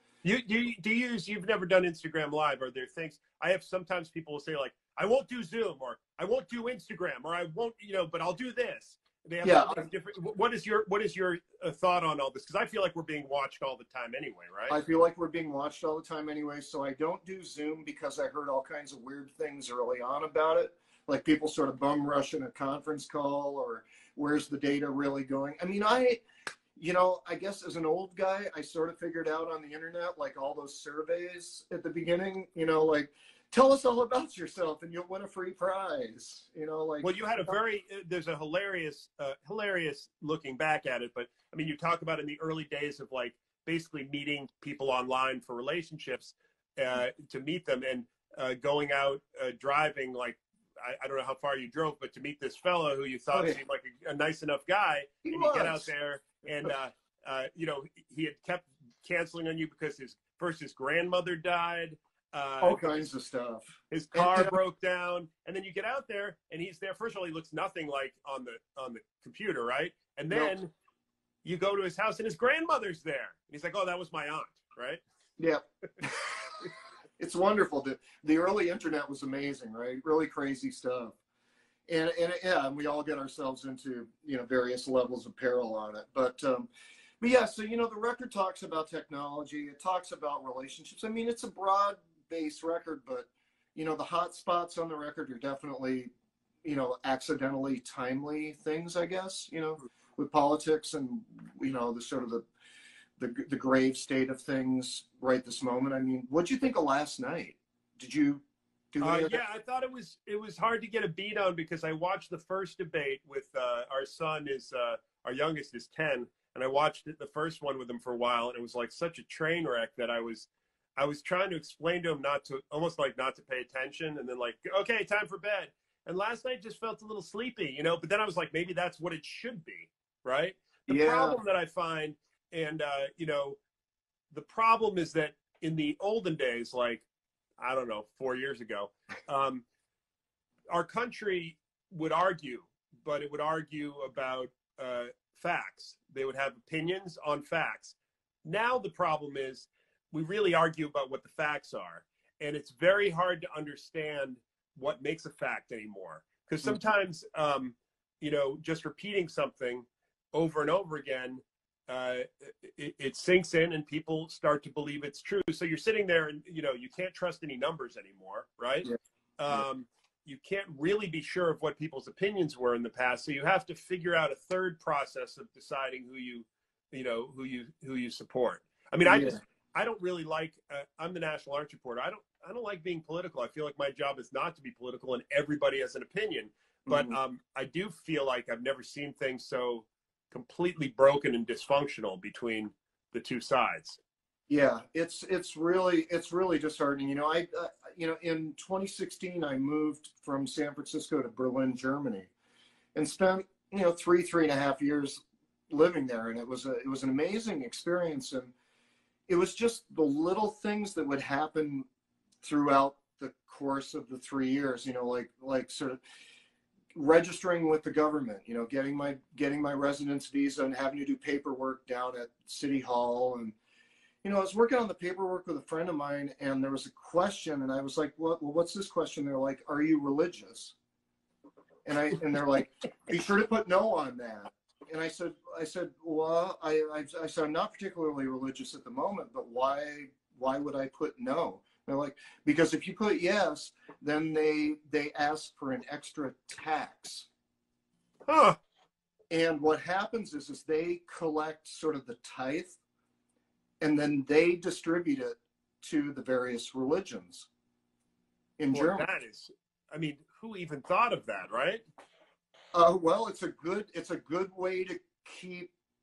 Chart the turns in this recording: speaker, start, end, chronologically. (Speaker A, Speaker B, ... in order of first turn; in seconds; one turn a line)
Speaker A: 0.2-14.8
Speaker B: 9.4-9.9
Speaker B: 14.7-26.2
Speaker B: 26.8-37.5
Speaker A: 37.0-63.0
Speaker B: 53.3-53.6
Speaker B: 55.2-55.9
Speaker B: 62.6-64.5
Speaker A: 63.9-70.7
Speaker A: 71.4-75.0
Speaker B: 75.4-81.2
Speaker B: 81.9-86.7
Speaker B: 87.2-96.1
Speaker B: 96.6-102.5
Speaker B: 103.2-109.5
Speaker A: 109.0-133.6
Speaker B: 130.9-131.4
Speaker A: 134.3-137.1
Speaker A: 137.6-139.7
Speaker A: 140.7-194.0
Speaker B: 179.0-179.4
Speaker B: 186.9-187.2
Speaker B: 194.5-202.3
Speaker B: 202.9-208.5
Speaker B: 209.3-211.9
Speaker B: 212.4-216.0
Speaker B: 216.9-223.6
Speaker B: 224.2-230.8
Speaker B: 231.8-247.3
Speaker A: 248.3-248.6
Speaker B: 249.3-252.8
Speaker B: 253.8-257.5
Speaker B: 258.6-259.1
Speaker A: 258.7-261.8
Speaker B: 262.7-265.7